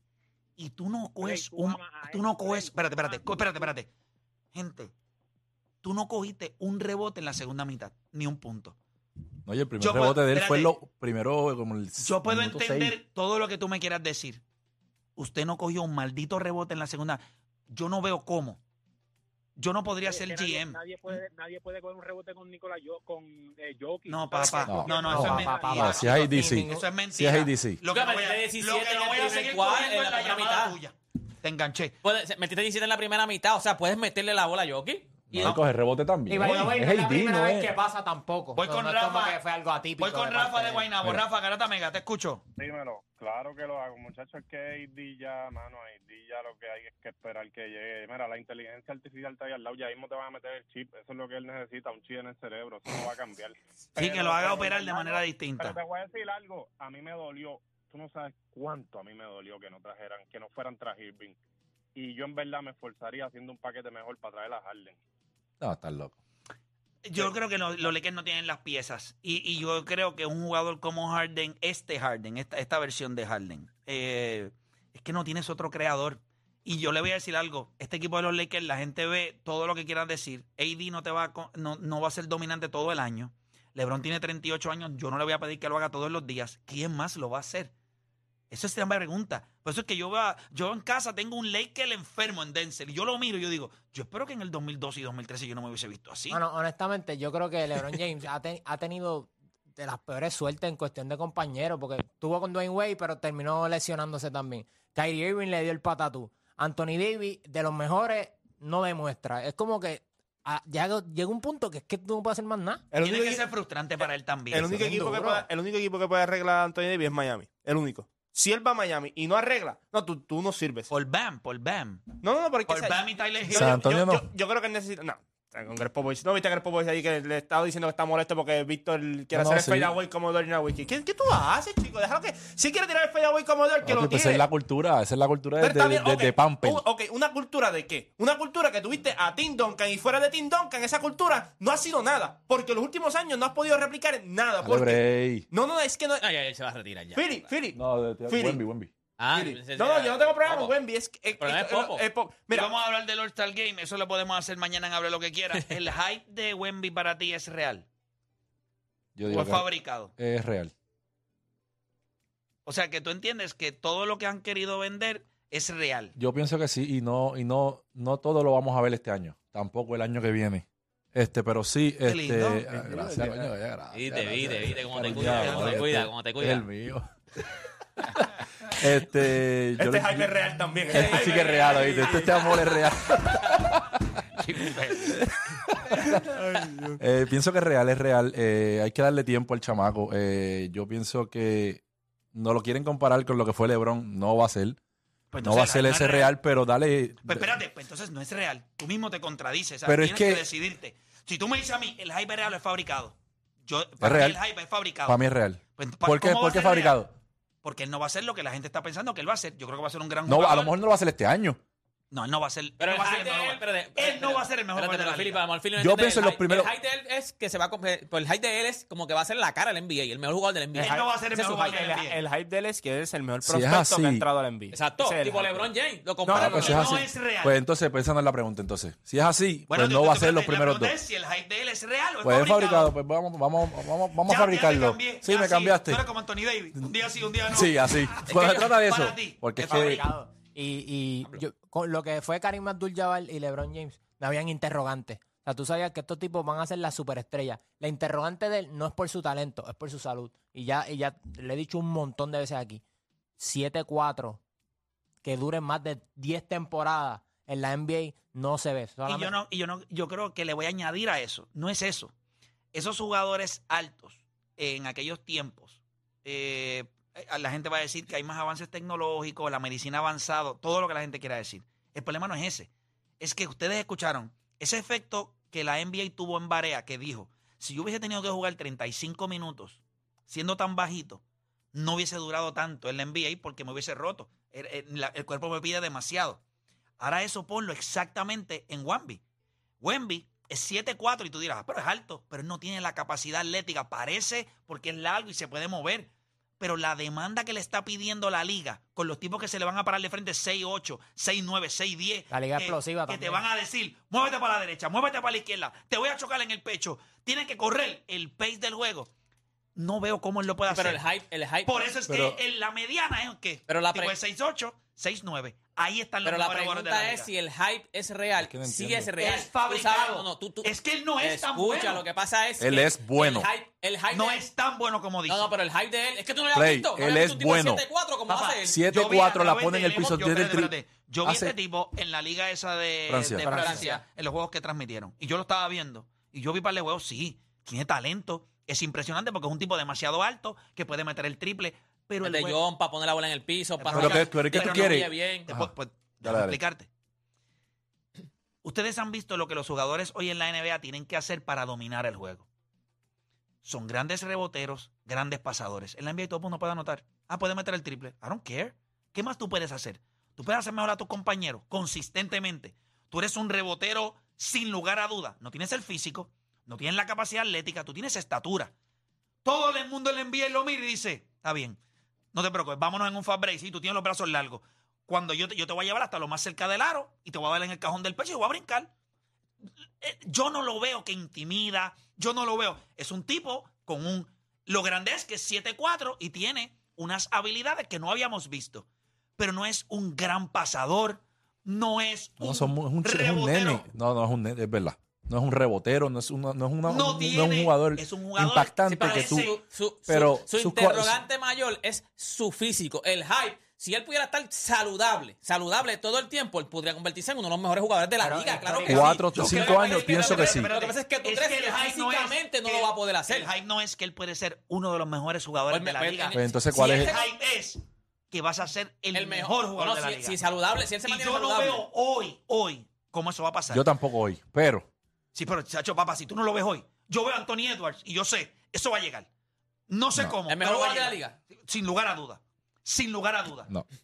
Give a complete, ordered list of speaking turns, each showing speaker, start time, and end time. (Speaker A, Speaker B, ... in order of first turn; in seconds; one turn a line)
Speaker A: 0.6-3.9
Speaker B: 1.2-3.8
Speaker A: 4.5-4.9
Speaker A: 5.8-8.8
Speaker C: 9.4-12.9
Speaker A: 9.8-10.7
Speaker A: 12.0-14.4
Speaker A: 15.2-18.6
Speaker A: 19.6-21.2
Speaker B: 19.9-26.2
Speaker A: 24.1-31.9
Speaker C: 24.7-27.8
Speaker D: 25.1-26.9
Speaker E: 27.9-30.8
Speaker E: 32.0-35.5
Speaker C: 35.3-37.7
Speaker A: 35.4-35.6
Speaker D: 36.3-40.9
Speaker A: 36.4-36.7
Speaker A: 38.5-39.4
Speaker A: 40.0-42.4
Speaker F: 42.6-61.4
Speaker A: 54.0-55.8
Speaker F: 62.0-65.0
Speaker C: 65.6-66.2
Speaker A: 67.0-87.7
Speaker A: 88.5-96.4
Speaker D: 96.3-112.8
Speaker G: 112.9-113.5
Speaker A: 113.0-114.8
Speaker G: 114.5-120.9
Speaker D: 114.6-115.5
Speaker A: 120.9-122.0
Speaker G: 122.2-134.5
Speaker A: 122.7-123.8
Speaker C: 123.5-124.2
Speaker C: 129.3-129.9
Speaker C: 133.8-136.8
Speaker G: 135.6-146.2
Speaker C: 144.6-145.5
Speaker E: 146.2-147.5
Speaker G: 147.1-148.6
Speaker C: 147.7-148.9
Speaker E: 149.2-150.8
Speaker G: 149.3-152.8
Speaker E: 151.4-152.0
Speaker A: 152.5-157.9
Speaker C: 159.2-160.7
Speaker A: 159.3-160.1
Speaker A: 162.7-166.1
Speaker C: 166.2-177.1
Speaker A: 172.0-172.6
Speaker G: 172.7-173.5
Speaker E: 173.9-176.7
Speaker A: 175.1-175.8
Speaker C: 178.1-180.4
Speaker G: 179.8-182.4
Speaker C: 180.9-184.0
Speaker E: 180.9-182.8
Speaker A: 184.4-185.2
Speaker C: 185.8-186.1
Speaker G: 186.3-187.0
Speaker C: 187.0-191.8
Speaker C: 192.3-194.8
Speaker A: 195.3-196.3
Speaker C: 195.4-197.5
Speaker A: 197.2-205.2
Speaker C: 199.9-200.5
Speaker C: 204.0-204.4
Speaker C: 205.1-207.1
Speaker A: 205.8-207.0
Speaker A: 207.6-210.7
Speaker C: 210.2-211.6
Speaker A: 212.1-215.4
Speaker E: 212.8-221.8
Speaker C: 215.8-216.7
Speaker G: 220.8-225.7
Speaker A: 220.8-222.2
Speaker C: 223.4-224.2
Speaker E: 224.7-227.0
Speaker G: 226.2-227.0
Speaker C: 226.3-231.0
Speaker A: 226.4-227.6
Speaker A: 229.7-232.9
Speaker C: 232.2-236.0
Speaker A: 234.2-240.1
Speaker C: 237.5-240.0
Speaker E: 238.3-238.8
Speaker D: 239.6-252.8
Speaker D: 253.4-254.4
Speaker D: 255.2-259.4
Speaker A: 259.1-262.1
Speaker A: 262.7-281.2
Speaker A: 281.7-286.4
Speaker A: 287.0-289.2
Speaker A: 289.8-309.1
Speaker D: 302.3-303.4
Speaker A: 309.8-311.0
Speaker E: 310.7-311.9
Speaker A: 311.6-317.3
Speaker C: 312.1-312.4
Speaker E: 313.7-314.1
Speaker E: 316.2-324.5
Speaker C: 318.4-319.1
Speaker A: 319.2-322.0
Speaker C: 322.6-323.5
Speaker A: 324.1-325.5
Speaker E: 325.3-328.8
Speaker C: 326.5-327.8
Speaker A: 328.3-342.6
Speaker C: 328.6-331.5
Speaker C: 333.1-333.6
Speaker E: 333.4-334.0
Speaker D: 333.5-334.0
Speaker E: 342.2-345.5
Speaker A: 343.8-346.9
Speaker C: 343.9-345.7
Speaker C: 346.2-346.6
Speaker A: 348.6-352.5
Speaker A: 353.6-368.7
Speaker A: 369.4-371.8
Speaker A: 372.3-378.9
Speaker A: 380.0-388.9
Speaker A: 389.4-393.9
Speaker C: 392.4-399.5
Speaker A: 396.9-399.6
Speaker E: 398.9-413.5
Speaker C: 400.1-401.2
Speaker D: 408.2-409.2
Speaker C: 408.9-410.7
Speaker A: 409.2-420.4
Speaker E: 415.7-417.3
Speaker C: 416.3-417.1
Speaker E: 419.1-421.8
Speaker A: 421.0-423.9
Speaker C: 423.7-424.9
Speaker A: 425.3-429.3
Speaker A: 429.9-433.7
Speaker E: 430.5-431.4